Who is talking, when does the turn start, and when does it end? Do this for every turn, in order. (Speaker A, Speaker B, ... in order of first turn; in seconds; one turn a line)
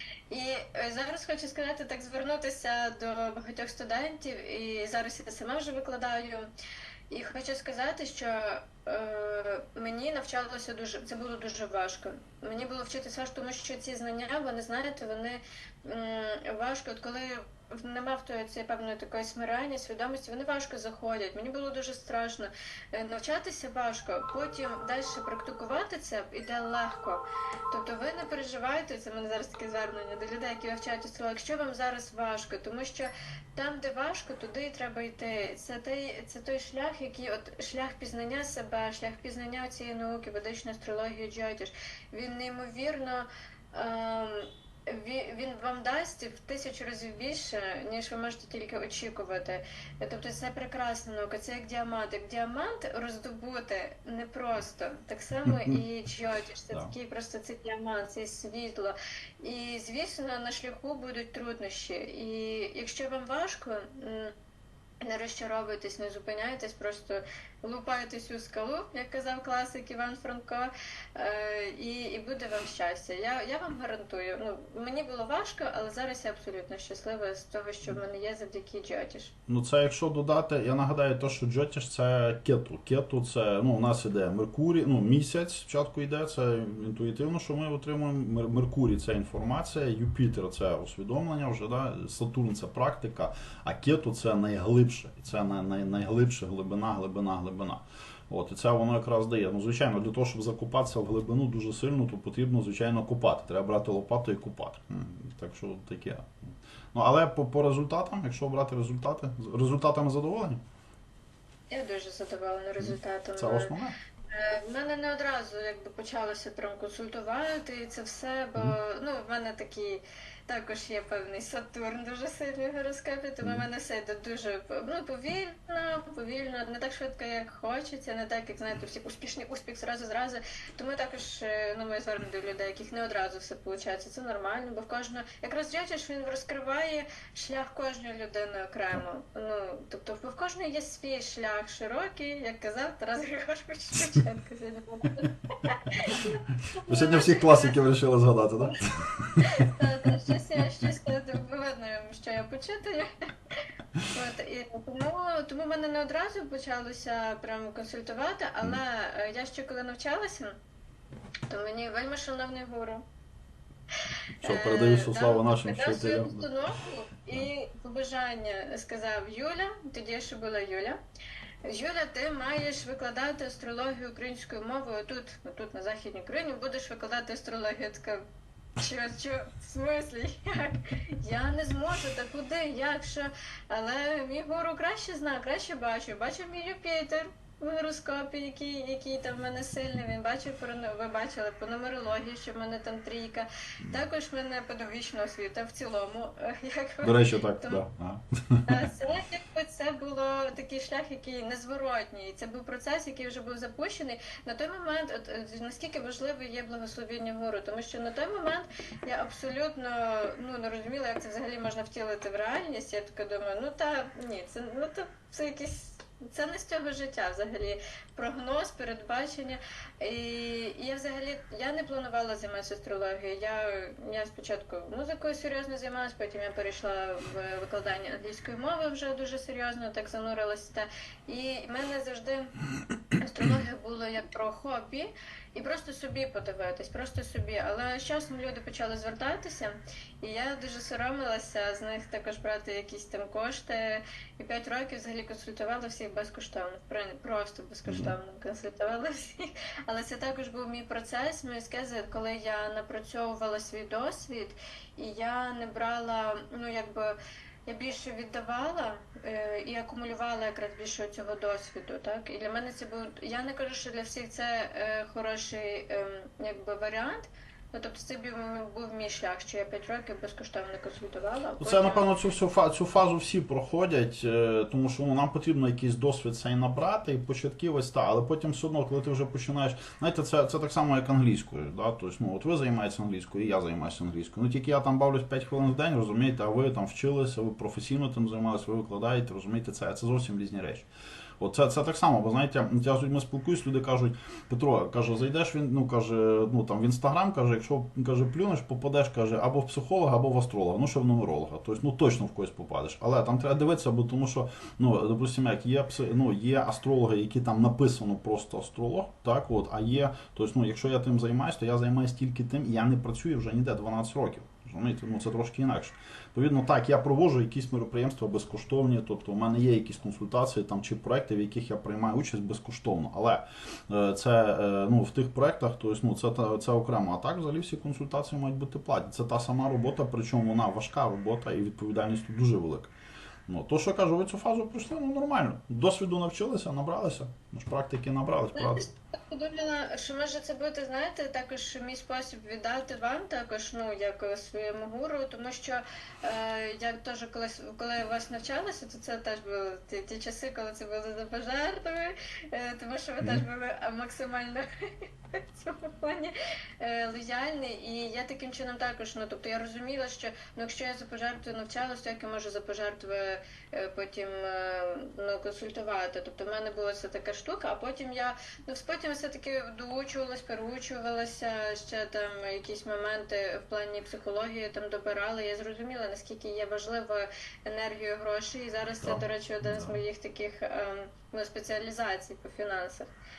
Speaker A: 0.3-6.5
Speaker A: 7.1-64.3
Speaker B: 55.5-55.7
Speaker A: 65.0-79.3
Speaker B: 79.5-110.6
Speaker A: 111.7-113.7
Speaker B: 112.8-114.0
Speaker A: 114.3-147.7
Speaker B: 146.8-149.7
Speaker A: 149.4-160.5
Speaker A: 161.5-163.0
Speaker B: 164.4-166.5
Speaker A: 164.4-171.0
Speaker A: 171.6-178.2
Speaker A: 178.8-197.8
Speaker B: 197.0-198.8
Speaker A: 198.7-232.5
Speaker A: 233.2-272.1
Speaker B: 247.8-248.1
Speaker B: 271.6-290.9
Speaker B: 291.4-332.9
Speaker B: 333.5-338.9
Speaker A: 338.6-383.1
Speaker B: 379.0-380.0